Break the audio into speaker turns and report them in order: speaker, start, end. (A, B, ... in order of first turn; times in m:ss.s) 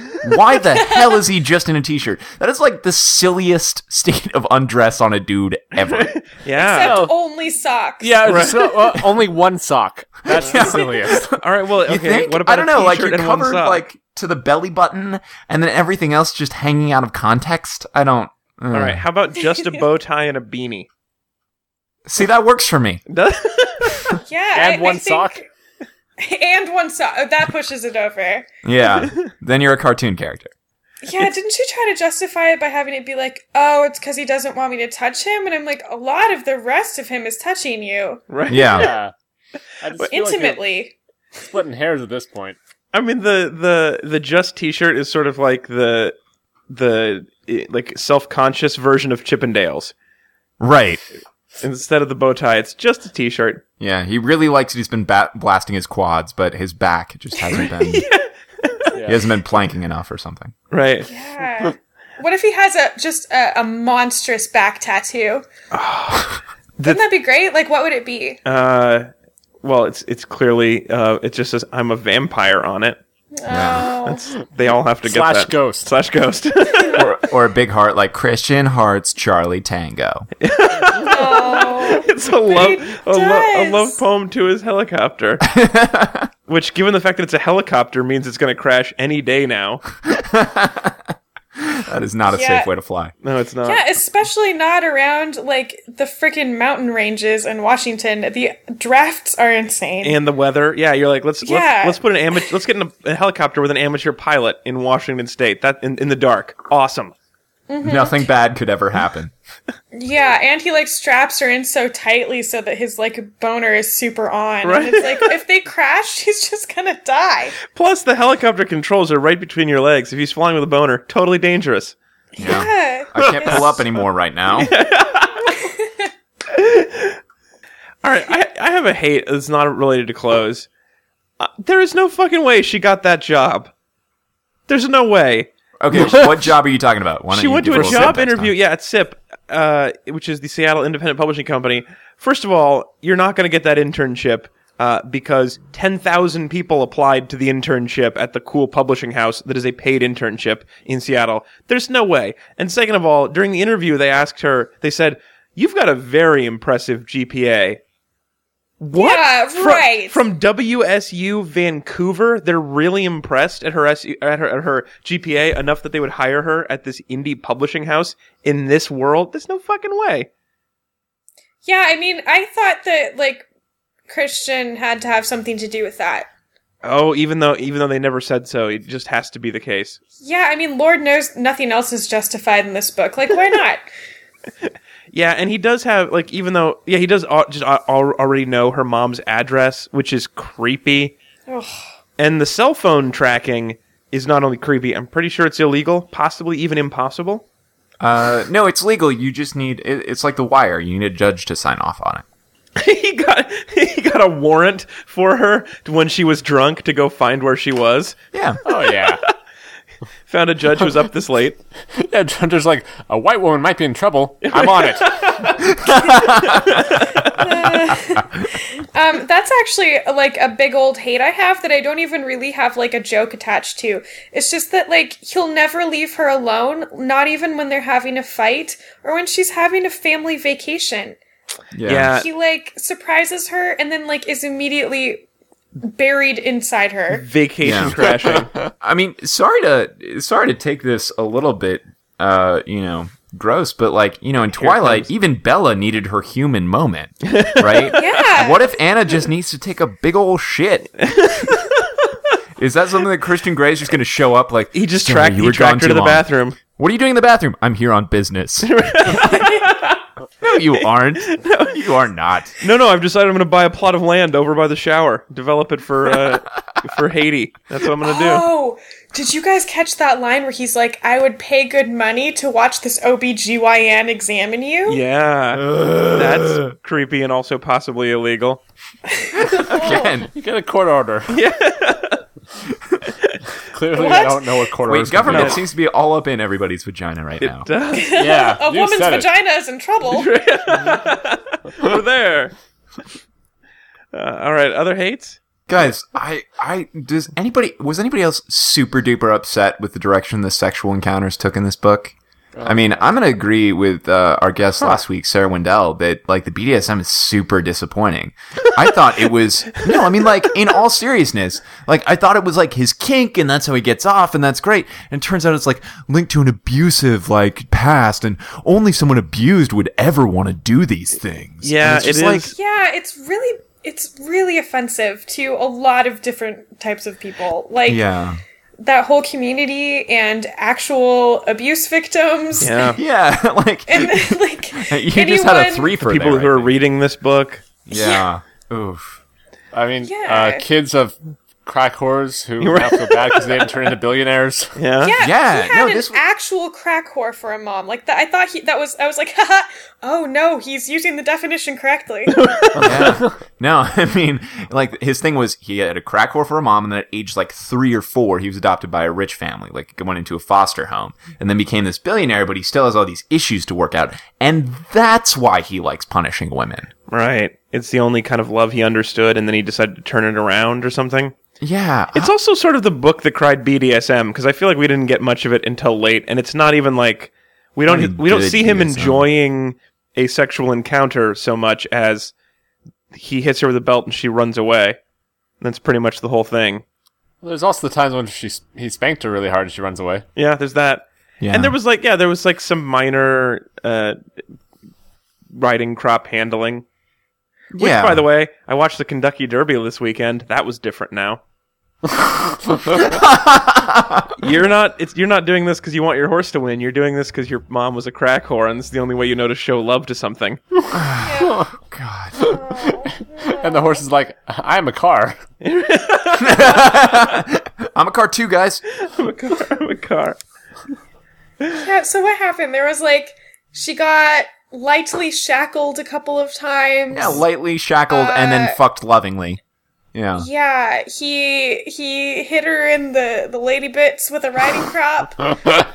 0:00.2-0:06.2 A
0:00.7-0:01.2 B
0:05.8-0:07.0 C
0:06.6-0:08.3 B
0:06.8-0:07.2 D
0:08.0-0:11.4 D
0:08.2-0:08.8 C
0:10.3-0:11.3 A
0:10.5-0:10.8 B
0:11.4-0:13.8 C
0:11.9-0:19.0 A
0:18.7-0:20.9 C
0:19.5-0:19.8 B
0:22.1-0:23.0 A
0:23.1-0:24.1 C
0:24.1-0:25.5 B
0:24.5-0:25.4 D
0:26.2-0:28.5 B
0:28.6-0:30.5 A
0:31.0-0:38.2 B
0:38.3-0:38.9 C
0:38.5-0:38.9 A
0:38.7-0:39.1 D
0:39.8-0:40.7 D
0:40.0-0:40.9 B
0:41.4-0:42.6 D
0:42.9-0:46.2 C
0:46.7-0:49.9 C
0:50.6-0:51.0 A
0:51.6-0:53.6 C
0:53.8-0:58.1 A
0:57.5-0:59.0 C
0:58.9-0:59.2 D
0:59.0-1:00.5 A
1:00.7-1:01.1 C
1:01.1-1:05.4 B
1:05.7-1:07.0 C
1:06.8-1:08.4 B
1:08.4-1:09.1 C
1:09.6-1:13.0 C
1:13.4-1:14.3 B
1:13.5-1:13.9 A
1:14.0-1:17.1 C
1:15.0-1:15.9 D
1:16.7-1:17.0 B
1:17.0-1:20.3 A
1:20.4-1:25.5 C
1:21.0-1:24.0 B
1:25.5-1:26.3 A
1:26.5-1:29.8 C
1:30.1-1:31.0 A
1:31.6-1:33.1 A
1:32.3-1:32.7 B
1:33.2-1:33.8 C
1:33.6-1:40.2 B
1:40.0-1:47.1 C
1:41.4-1:42.0 B
1:47.7-1:48.2 B
1:47.8-1:49.3 A
1:49.9-1:57.6 B
1:54.6-1:55.4 C
1:57.7-2:02.0 C
2:02.4-2:03.9 B
2:02.4-2:04.7 A
2:04.6-2:05.6 C
2:05.5-2:06.1 B
2:06.5-2:07.2 C
2:08.0-2:10.7 C
2:11.4-2:13.7 C
2:14.7-2:16.3 C
2:15.8-2:18.5 A
2:17.3-2:37.8 C
2:17.7-2:18.2 D
2:38.8-2:50.3 C
2:39.0-2:40.2 B
2:51.6-2:53.5 B
2:54.1-2:56.3 B
2:56.8-3:00.0 C
3:00.2-3:03.8 B
3:05.1-3:11.2 C
3:11.5-3:11.8 B
3:12.2-3:17.4 C
3:18.0-3:22.2 A
3:22.8-3:28.2 C
3:28.3-3:28.6 A
3:28.6-3:29.2 D
3:30.3-3:31.6 C
3:31.9-3:35.3 D
3:34.4-3:35.6 C
3:35.6-3:36.9 A
3:36.4-3:37.3 C
3:37.3-3:51.2 B
3:51.7-3:52.2 A
3:51.9-3:52.3 C
3:52.1-3:55.3 B
3:55.8-3:57.3 B
3:57.1-3:58.5 C
3:57.6-3:58.0 A
3:58.8-4:10.9 A
4:04.5-4:05.1 C
4:07.2-4:08.1 C
4:07.9-4:08.7 B
4:11.0-4:11.9 C
4:12.6-4:18.7 A
4:14.7-4:16.6 C
4:18.6-4:20.0 C
4:19.1-4:19.7 B
4:20.4-4:22.6 A
4:20.8-4:21.9 C
4:22.6-4:28.5 C
4:28.0-4:35.0 B
4:34.9-4:38.6 C
4:35.7-4:36.7 A
4:39.2-4:40.1 B
4:39.4-4:40.3 A
4:40.3-4:41.4 D
4:41.3-4:42.2 C
4:43.6-4:45.6 D
4:43.9-4:44.5 B
4:44.9-4:47.7 A
4:45.3-4:45.6 C
4:47.4-4:48.2 C
4:47.9-4:50.3 B
4:48.1-4:49.3 D
4:50.1-4:52.6 C
4:54.1-4:55.4 C
4:55.7-5:22.5 A
5:02.6-5:03.1 D
5:09.9-5:10.3 C
5:21.6-5:22.6 C
5:22.5-5:28.0 B
5:27.9-5:28.4 A
5:28.8-5:33.0 B
5:32.6-5:33.0 C
5:32.9-5:36.8 A
5:33.9-5:35.9 B
5:36.0-5:37.7 C
5:37.9-5:39.2 A
5:37.9-5:38.3 B
5:39.7-5:44.8 D
5:40.0-5:40.6 B
5:42.6-5:43.7 C
5:44.8-5:45.2 C
5:45.0-5:52.4 B
5:45.2-5:46.2 A
5:52.3-5:53.0 C
5:52.8-6:06.9 A
5:52.9-5:53.3 D
6:07.1-6:11.3 C
6:11.6-6:12.3 A
6:12.1-6:22.3 C
6:17.9-6:19.3 A
6:23.1-6:25.0 C
6:25.6-6:26.8 C
6:27.4-6:30.3 D
6:30.4-6:34.2 C
6:31.4-6:31.8 A
6:35.5-6:36.8 C
6:37.7-6:38.2 A
6:37.8-6:41.4 C
6:42.9-6:44.3 A
6:44.4-6:50.6 C
6:50.9-6:52.5 A
6:51.2-6:51.6 B
6:51.4-6:51.7 D
6:52.4-6:54.0 B
6:52.4-6:55.4 D
6:55.6-6:57.4 C
6:56.4-6:58.8 A
6:59.0-7:00.4 C
7:01.8-7:07.4 B
7:07.1-7:09.6 A
7:08.1-7:08.8 B
7:10.1-7:10.5 A
7:10.4-7:15.6 B